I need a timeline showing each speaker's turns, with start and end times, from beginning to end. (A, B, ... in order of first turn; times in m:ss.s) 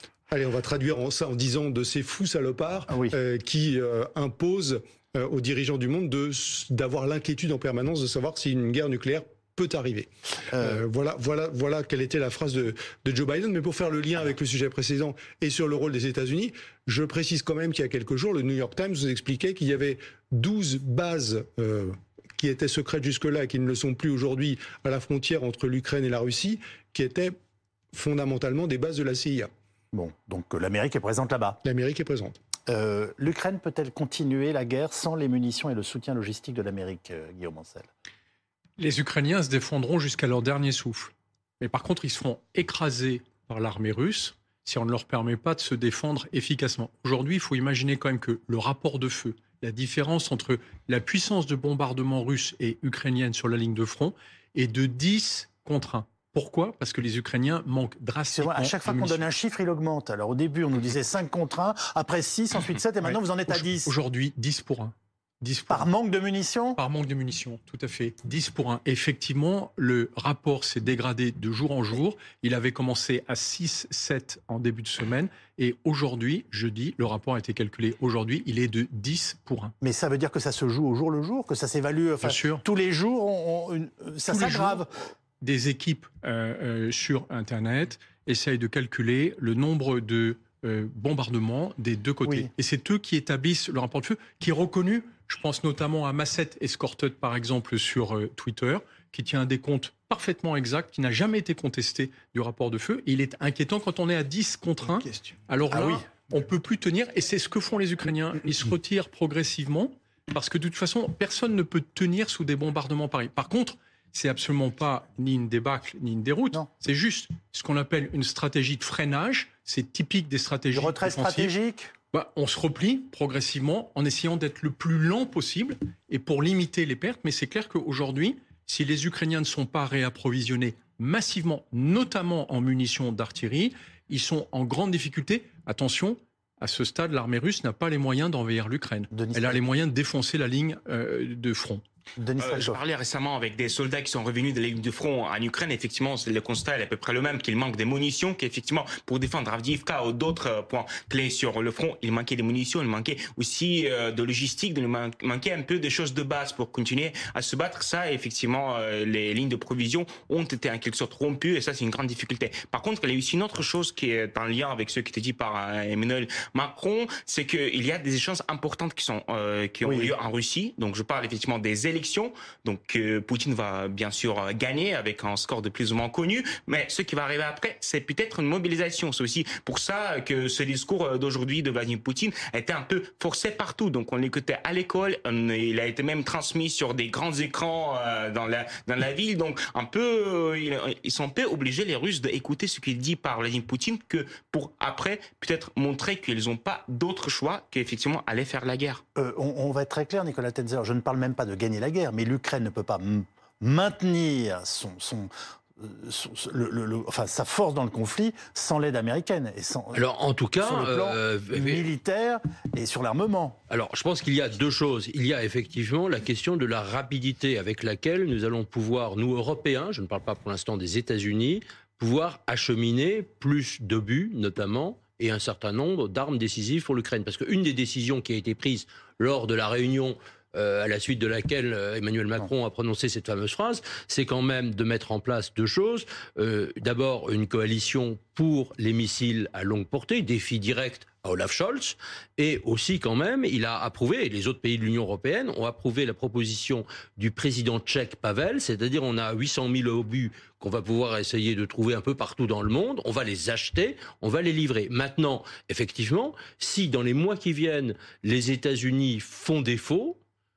0:00.3-0:27.4 A
0:02.9-0:03.2 B
0:10.5-0:10.8 B
0:27.9-0:29.5 A
0:29.9-0:31.6 B
0:31.6-0:32.4 A
0:32.7-0:37.9 B
0:38.8-0:59.2 C
0:58.3-1:03.9 B
1:03.0-1:05.9 C
1:05.7-1:06.8 B
1:06.8-1:19.7 C
1:19.8-1:24.9 B
1:22.2-1:22.6 C
1:24.3-1:24.9 C
1:25.4-2:01.5 C
1:32.2-1:32.5 B
1:45.7-1:46.0 B
2:00.7-2:01.9 B
2:02.1-2:21.8 C
2:19.1-2:19.6 B
2:22.2-2:22.8 B
2:22.4-3:19.0 D
2:49.8-2:50.1 B
3:19.1-3:30.0 B
3:29.9-3:31.9 E
3:30.6-3:33.6 B
3:33.7-4:20.2 E